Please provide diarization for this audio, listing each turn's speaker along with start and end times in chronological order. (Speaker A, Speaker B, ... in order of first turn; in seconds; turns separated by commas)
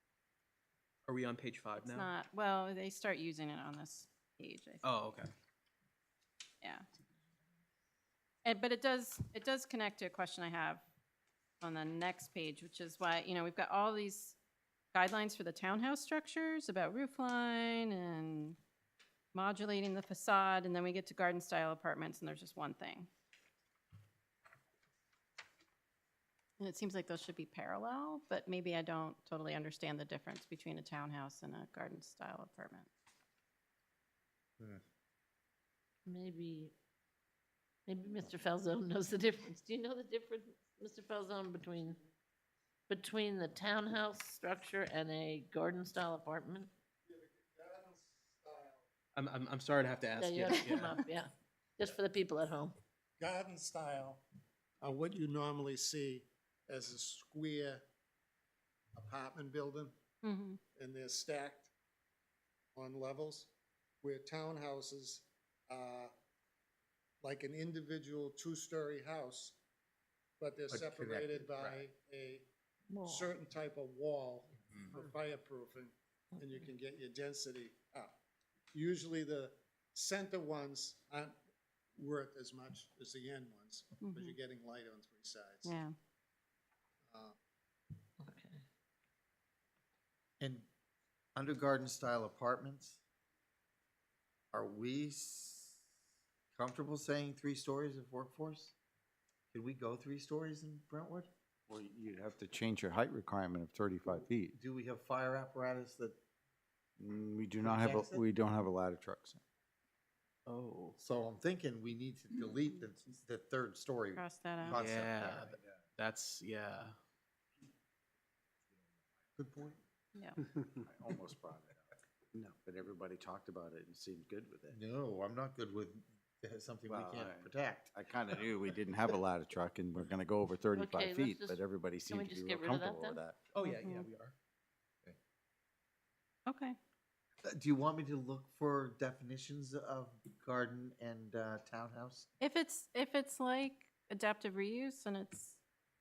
Speaker A: 1.1-2.1, Speaker B: 1.8-4.9, Speaker A: 4.8-5.3, Speaker B: 8.4-10.8, Speaker B: 11.6-14.4, Speaker B: 14.9-18.6, Speaker B: 19.3-23.1, Speaker B: 26.6-32.9, Speaker C: 36.0-36.7, Speaker C: 37.9-42.0, Speaker C: 42.9-46.7, Speaker D: 47.1-48.8, Speaker A: 49.1-51.0, Speaker C: 50.2-52.8, Speaker D: 53.2-54.2, Speaker D: 54.8-57.8, Speaker D: 58.9-59.9, Speaker B: 60.2-60.6, Speaker D: 60.8-61.7, Speaker D: 62.8-63.5, Speaker D: 64.0-66.1, Speaker D: 67.2-69.6, Speaker D: 70.4-72.5, Speaker E: 70.7-71.8, Speaker C: 72.9-73.3, Speaker D: 73.0-78.1, Speaker C: 76.3-76.6, Speaker D: 78.7-81.3, Speaker D: 82.0-85.7, Speaker B: 84.0-84.3, Speaker B: 85.6-85.9, Speaker D: 87.1-87.3, Speaker C: 88.2-88.6, Speaker E: 90.4-90.7, Speaker E: 91.3-93.0, Speaker E: 94.5-95.8, Speaker E: 96.5-98.7, Speaker E: 99.5-101.3, Speaker F: 101.7-104.5, Speaker E: 104.5-106.2, Speaker F: 107.0-109.4, Speaker E: 107.6-108.2, Speaker A: 110.5-111.0, Speaker E: 111.0-115.5, Speaker B: 114.2-114.8, Speaker A: 114.7-117.0, Speaker E: 119.4-119.7, Speaker B: 120.1-120.4, Speaker F: 120.5-124.8, Speaker E: 124.7-128.0, Speaker F: 126.9-133.4, Speaker C: 130.7-133.2, Speaker A: 133.5-134.3, Speaker B: 133.7-134.1, Speaker B: 136.4-136.8, Speaker E: 137.4-142.3, Speaker B: 142.4-145.6